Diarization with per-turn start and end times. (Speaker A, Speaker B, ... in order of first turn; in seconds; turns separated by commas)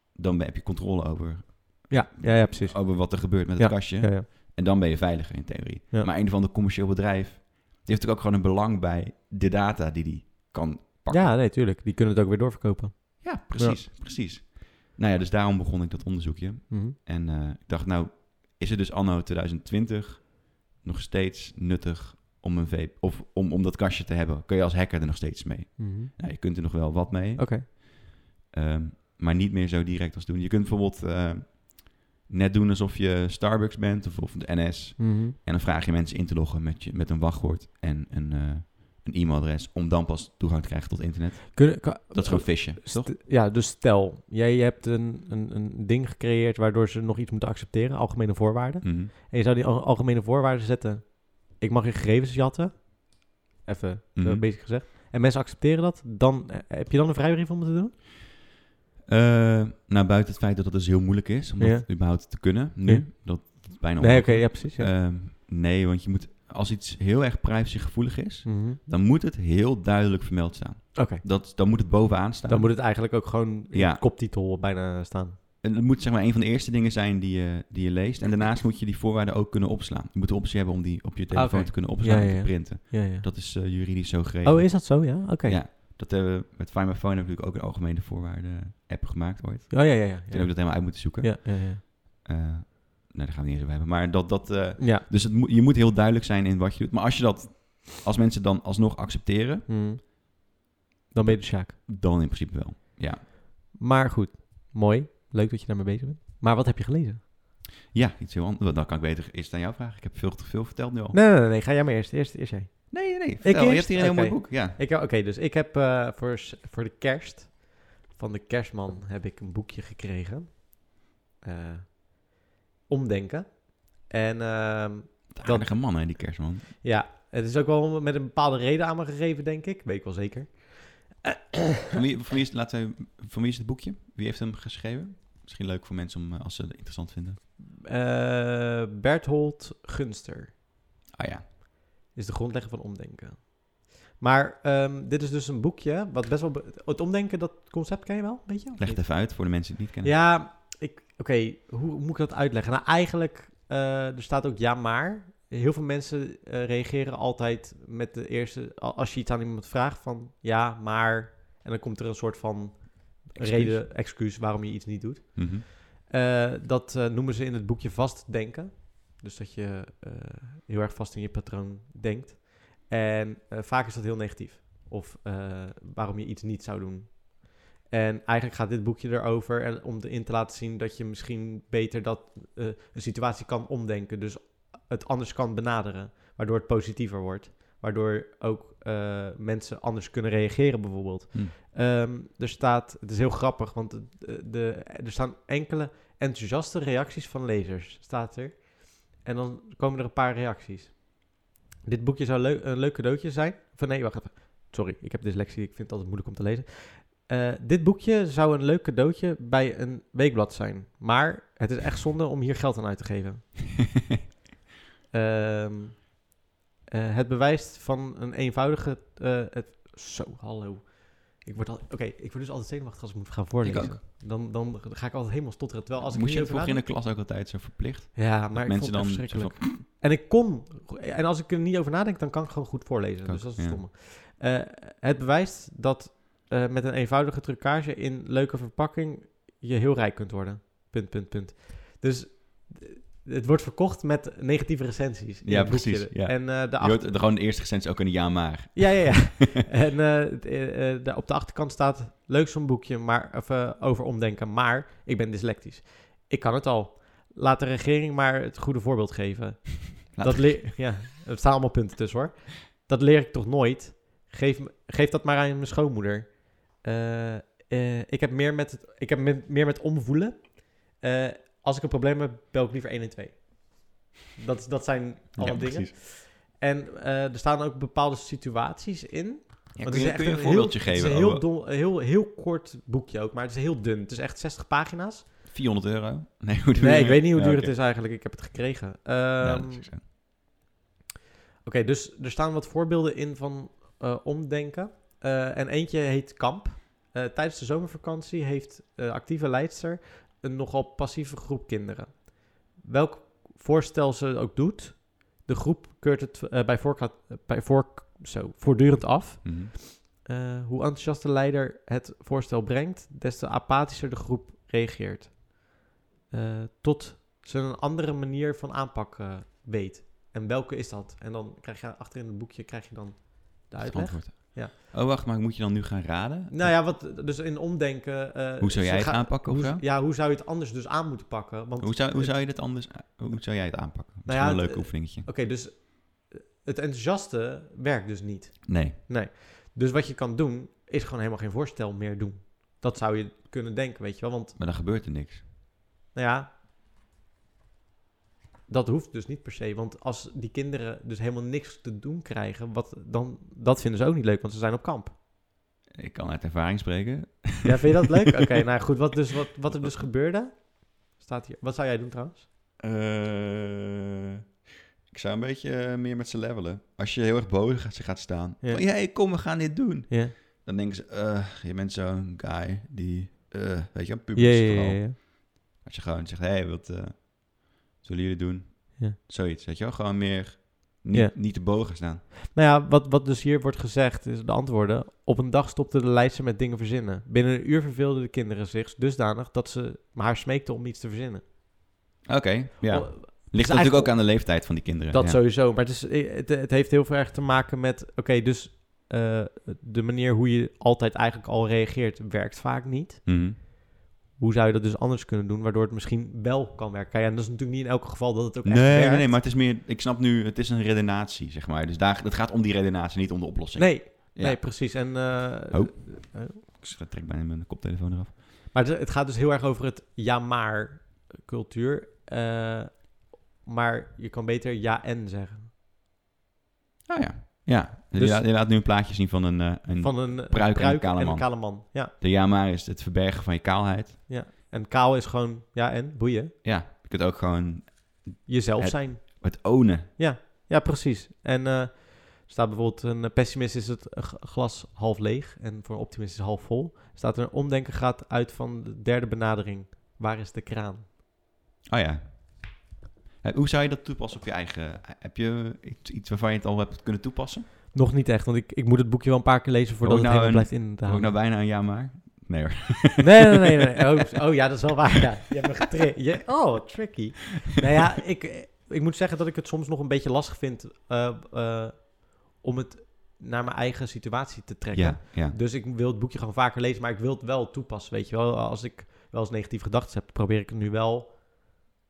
Speaker A: 0.1-11.4, Speaker B: 1.9-4.3, Speaker B: 11.1-13.8, Speaker A: 13.2-43.1, Speaker B: 16.7-17.0, Speaker B: 25.8-26.1, Speaker B: 27.4-27.7, Speaker B: 35.0-35.4, Speaker B: 41.5-58.0, Speaker A: 48.8-49.1, Speaker A: 54.2-54.5, Speaker A: 59.1-74.0, Speaker B: 61.6-64.9, Speaker B: 68.5-68.8, Speaker B: 70.9-71.2, Speaker B: 72.5-75.4, Speaker A: 75.6-99.7, Speaker B: 81.3-83.3, Speaker B: 84.4-85.6, Speaker B: 89.7-91.8, Speaker B: 94.8-95.0, Speaker B: 99.7-100.5, Speaker B: 101.1-101.8, Speaker A: 101.2-103.2, Speaker B: 103.7-107.2, Speaker A: 107.9-111.2, Speaker B: 111.1-131.9, Speaker A: 112.9-114.8, Speaker A: 125.3-126.8, Speaker A: 131.9-137.4, Speaker B: 137.6-140.5, Speaker A: 141.1-141.5, Speaker B: 142.1-213.7, Speaker A: 148.8-150.2, Speaker A: 163.3-163.8, Speaker A: 165.4-165.7, Speaker B: 215.1-216.3, Speaker B: 216.9-226.8, Speaker A: 223.6-224.0, Speaker A: 226.0-229.6, Speaker B: 228.2-247.2, Speaker A: 233.2-233.8, Speaker A: 245.4-249.4, Speaker B: 248.8-285.3, Speaker A: 260.1-260.9, Speaker A: 275.3-275.9, Speaker A: 279.8-281.4, Speaker A: 285.5-287.8, Speaker B: 286.8-289.9, Speaker A: 289.4-290.1, Speaker B: 291.6-324.7, Speaker A: 309.4-309.7, Speaker A: 323.8-326.8, Speaker B: 326.5-332.5, Speaker A: 328.6-329.8, Speaker A: 331.8-335.3, Speaker B: 334.3-344.6, Speaker A: 338.7-339.0, Speaker A: 344.6-345.4, Speaker B: 346.1-346.5, Speaker B: 348.7-355.1, Speaker A: 355.9-358.1, Speaker B: 357.6-362.5, Speaker A: 362.8-364.4, Speaker A: 365.1-382.2, Speaker B: 368.6-369.5, Speaker B: 370.1-370.3, Speaker B: 374.4-375.2, Speaker B: 381.1-381.9, Speaker B: 382.5-391.4, Speaker A: 392.2-395.4, Speaker B: 392.9-403.8, Speaker A: 403.2-403.6, Speaker B: 404.3-409.3, Speaker A: 408.6-418.4, Speaker B: 413.8-416.6, Speaker B: 418.7-425.7, Speaker A: 427.1-434.2, Speaker B: 428.1-428.4, Speaker B: 430.0-432.1, Speaker B: 434.3-436.6, Speaker A: 436.6-440.1, Speaker B: 438.5-451.1, Speaker A: 451.9-452.9, Speaker A: 453.4-457.7, Speaker B: 457.9-461.3, Speaker A: 460.0-463.6, Speaker B: 463.2-481.3, Speaker A: 474.9-475.6